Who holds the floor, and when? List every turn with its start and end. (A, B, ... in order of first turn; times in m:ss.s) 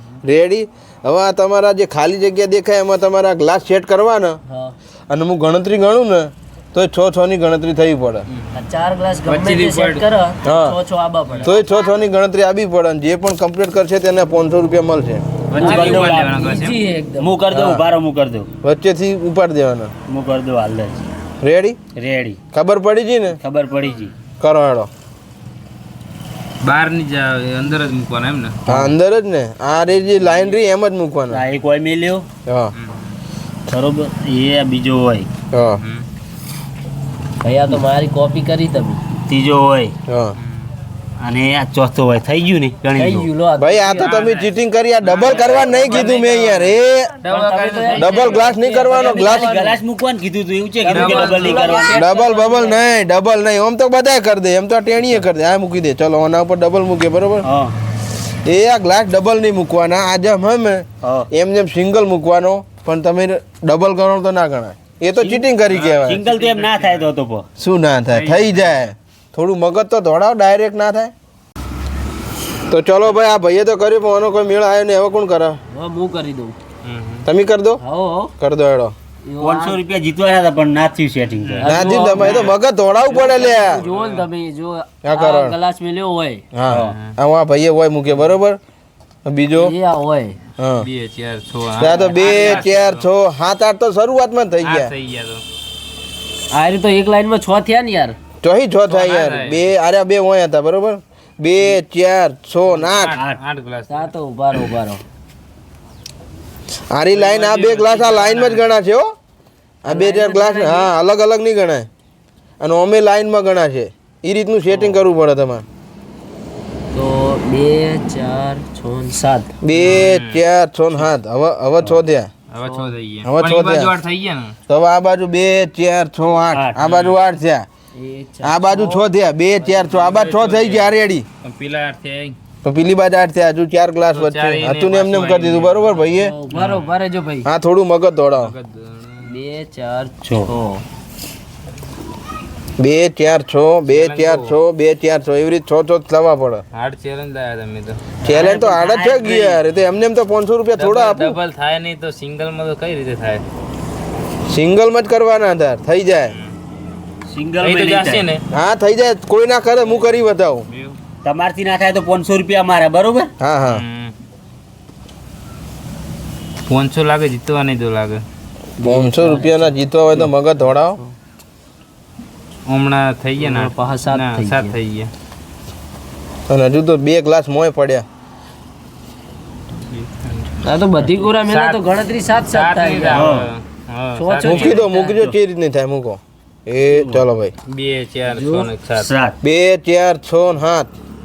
0:00.2-0:04.4 A
0:04.4-0:04.7 B
0:05.1-0:08.2 A
0:08.3-0:08.6 C
0:08.5-0:11.6 B
0:09.2-0:10.0 C
0:10.4-0:10.8 A
0:11.4-0:15.2 A
0:15.5-0:16.5 D
0:15.5-0:16.8 C
0:15.6-0:17.4 B
0:17.2-0:18.5 D
0:17.5-0:17.8 A
0:18.6-0:19.9 A
0:20.1-0:21.1 D
0:21.4-0:21.8 A
0:22.0-0:22.4 D
0:22.5-0:23.4 A
0:23.4-0:24.1 D
0:24.4-0:24.9 A
0:26.6-0:28.8 C
0:28.6-0:31.4 A
0:31.3-0:32.3 D
0:32.4-0:32.7 A
0:32.7-0:33.2 C
0:33.7-0:35.3 D
0:35.5-0:35.8 A
0:35.8-0:36.0 C
0:37.4-0:39.0 B
0:39.2-0:39.9 D
0:40.1-0:40.3 A
0:40.4-0:40.7 C
0:41.2-0:43.3 D
0:43.0-0:44.2 B
0:43.6-0:47.2 A
0:44.0-0:48.5 C
0:45.4-0:45.7 D
0:47.3-0:49.8 B
0:47.9-0:49.6 A
0:49.0-0:51.9 D
0:50.8-0:52.8 B
0:50.8-0:52.1 C
0:51.9-0:57.4 A
0:57.4-0:57.7 D
0:58.4-1:06.2 A
1:01.0-1:01.3 D
1:05.1-1:07.5 D
1:05.7-1:07.1 C
1:07.6-1:11.1 A
1:08.1-1:08.8 C
1:12.7-1:15.6 A
1:15.7-1:16.5 B
1:16.8-1:17.3 C
1:17.2-1:17.8 A
1:17.8-1:18.3 B
1:18.4-1:18.9 A
1:19.2-1:19.8 B
1:19.4-1:21.7 D
1:21.4-1:22.5 C
1:21.6-1:22.5 B
1:21.6-1:23.8 A
1:23.1-1:26.4 B
1:23.2-1:24.3 C
1:25.0-1:25.6 A
1:26.5-1:28.6 A
1:26.7-1:27.0 D
1:26.7-1:27.2 C
1:29.2-1:29.7 A
1:29.5-1:30.4 B
1:30.6-1:30.9 A
1:30.8-1:33.0 C
1:31.8-1:34.9 A
1:31.9-1:32.6 B
1:34.6-1:35.4 C
1:36.5-1:38.2 B
1:38.4-1:43.2 A
1:38.9-1:39.7 C
1:42.7-1:44.1 C
1:43.9-1:45.0 B
1:46.9-1:49.1 A
1:47.1-1:48.7 C
1:49.8-1:51.9 A
1:49.9-1:50.9 B
1:52.6-1:55.6 A
1:56.9-1:59.5 B
1:59.6-2:02.3 A
1:59.8-2:00.4 C
2:02.5-2:04.6 C
2:02.6-2:03.0 B
2:03.2-2:03.9 A
2:04.7-2:07.7 A
2:06.5-2:06.8 D
2:06.8-2:07.2 C
2:07.9-2:09.0 B
2:08.4-2:11.2 A
2:09.7-2:12.4 C
2:12.6-2:16.3 A
2:14.1-2:16.0 C
2:15.9-2:17.5 B
2:16.5-2:16.9 C
2:17.4-2:18.5 A
2:18.4-2:19.3 C
2:19.2-2:20.8 B
2:20.2-2:20.6 D
2:22.8-2:26.6 A
2:23.9-2:24.6 C
2:26.7-2:28.0 C
2:28.2-2:29.6 D
2:28.2-2:31.4 A
2:30.8-2:33.4 C
2:34.5-2:36.3 A
2:37.3-2:38.2 D
2:37.6-2:38.4 C
2:38.5-2:40.6 A
2:39.8-2:41.0 C
2:41.2-2:43.3 D
2:43.4-2:43.8 A
2:43.7-2:44.1 C
2:46.7-2:48.2 C
2:48.8-2:50.3 B
2:48.8-2:51.0 A
2:52.6-2:55.1 C
2:53.4-2:54.8 B
2:56.5-2:58.0 A
2:59.9-3:00.5 C
3:00.6-3:03.3 B
3:01.0-3:01.8 C
3:02.4-3:04.8 C
3:03.1-3:03.5 D
3:04.1-3:05.2 B
3:04.4-3:07.5 A
3:06.9-3:07.2 D
3:07.7-3:09.1 C
3:08.3-3:08.7 B
3:08.9-3:09.4 D
3:09.4-3:10.9 A